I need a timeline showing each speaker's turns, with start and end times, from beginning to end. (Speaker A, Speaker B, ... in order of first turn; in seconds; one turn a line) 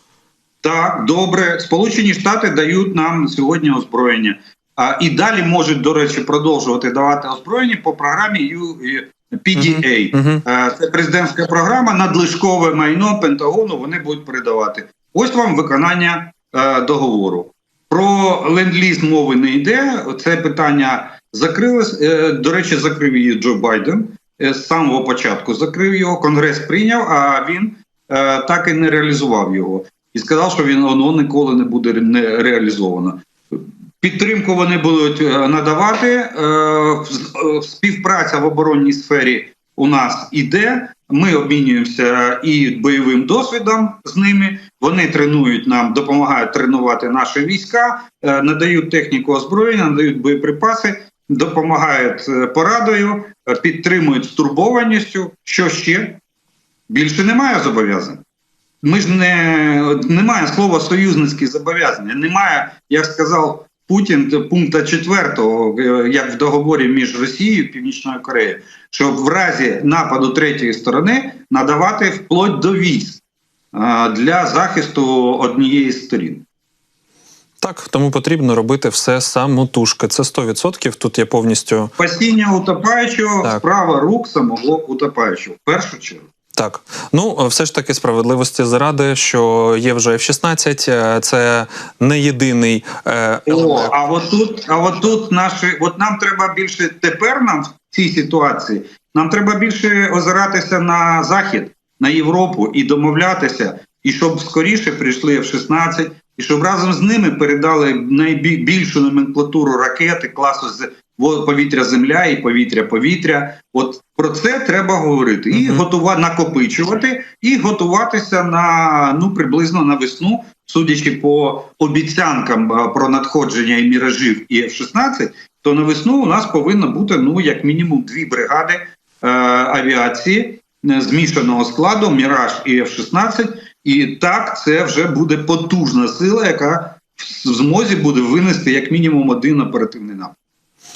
Speaker A: 0.6-56.2
Speaker B: 9.6-10.4
Speaker A: 56.9-58.2
Speaker A: 58.8-73.2
Speaker A: 73.7-76.4
Speaker B: 77.6-81.9
Speaker A: 82.0-86.3
Speaker B: 86.6-93.9
Speaker A: 93.5-140.3
Speaker B: 115.5-115.8